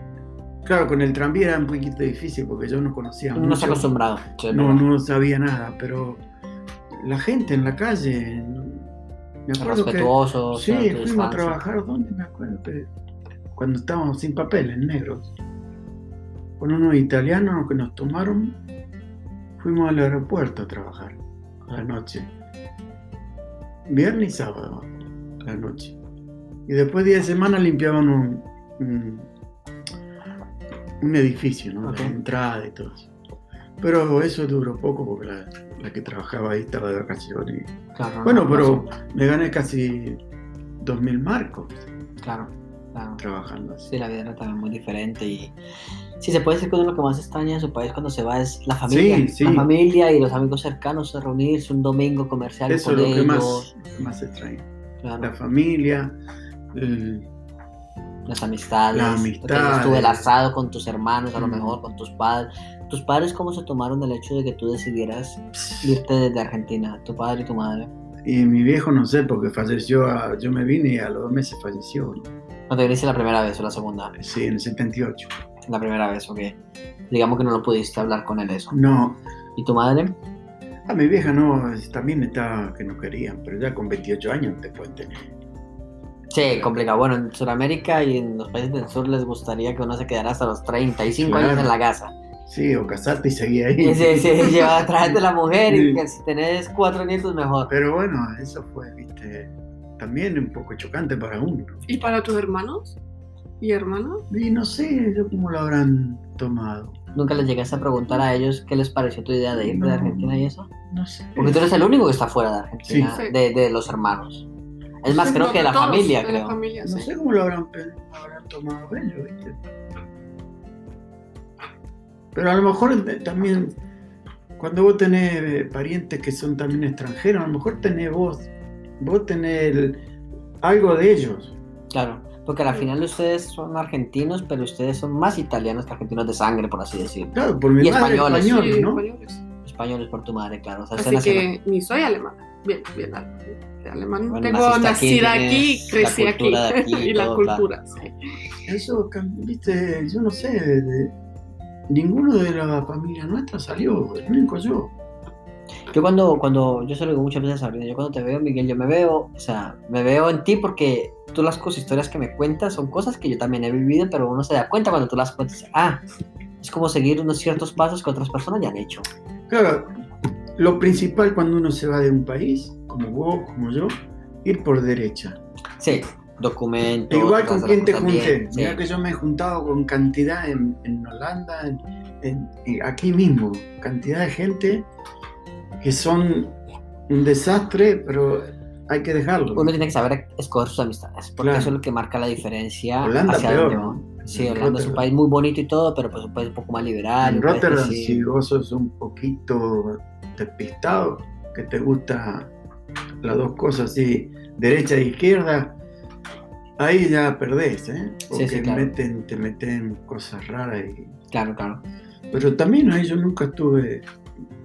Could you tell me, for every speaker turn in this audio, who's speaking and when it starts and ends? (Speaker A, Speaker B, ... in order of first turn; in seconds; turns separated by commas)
Speaker A: 0.6-3.9, Speaker B: 3.3-4.8, Speaker A: 4.5-6.2, Speaker A: 6.9-8.9, Speaker A: 9.5-12.9, Speaker B: 9.6-11.6, Speaker A: 13.6-15.3, Speaker A: 16.6-18.6, Speaker A: 19.6-22.3, Speaker A: 23.9-26.0, Speaker A: 26.7-29.3, Speaker A: 31.0-33.1, Speaker B: 31.8-32.1, Speaker A: 33.8-37.7, Speaker B: 37.9-38.9, Speaker A: 38.2-40.2, Speaker A: 40.8-41.9, Speaker B: 42.2-43.2, Speaker A: 43.2-43.9, Speaker B: 43.9-45.5, Speaker B: 46.2-53.7, Speaker A: 48.9-49.7, Speaker A: 52.7-54.6, Speaker B: 55.0-55.3, Speaker A: 55.2-56.1, Speaker A: 56.7-57.3, Speaker B: 58.3-67.9, Speaker A: 58.9-60.3, Speaker A: 61.4-61.8, Speaker A: 65.6-65.9, Speaker A: 68.2-72.3, Speaker B: 72.7-74.2, Speaker A: 74.2-75.3, Speaker B: 75.7-76.6, Speaker B: 77.1-78.8, Speaker A: 78.7-79.2, Speaker B: 79.5-80.2, Speaker A: 80.9-85.3, Speaker B: 86.3-92.1, Speaker A: 91.2-91.7, Speaker A: 92.5-96.0, Speaker B: 93.8-97.7, Speaker A: 97.7-101.8, Speaker C: 101.9-103.0, Speaker C: 103.6-104.2, Speaker A: 104.3-107.0, Speaker B: 107.1-110.7, Speaker A: 109.5-111.7, Speaker B: 111.3-114.5, Speaker A: 112.8-113.2, Speaker B: 115.0-116.6, Speaker C: 115.1-117.1, Speaker A: 116.8-119.6, Speaker A: 122.3-123.8, Speaker A: 124.6-130.0, Speaker A: 130.6-131.5, Speaker B: 131.9-138.6, Speaker A: 137.3-139.0, Speaker C: 138.4-139.4, Speaker B: 139.6-141.5, Speaker C: 140.9-148.1, Speaker B: 144.3-147.6, Speaker A: 148.7-151.1, Speaker A: 151.9-154.9, Speaker B: 155.9-166.0, Speaker B: 166.6-169.1, Speaker A: 169.5-169.9, Speaker A: 170.6-175.4, Speaker B: 175.8-178.8, Speaker A: 177.1-184.9, Speaker A: 185.8-186.5, Speaker A: 187.1-189.7, Speaker B: 189.5-198.3, Speaker A: 191.4-191.7, Speaker A: 193.0-195.0, Speaker A: 197.2-202.5, Speaker A: 203.2-205.8, Speaker A: 206.8-211.2, Speaker B: 208.3-208.9, Speaker B: 211.3-211.8, Speaker A: 212.3-214.1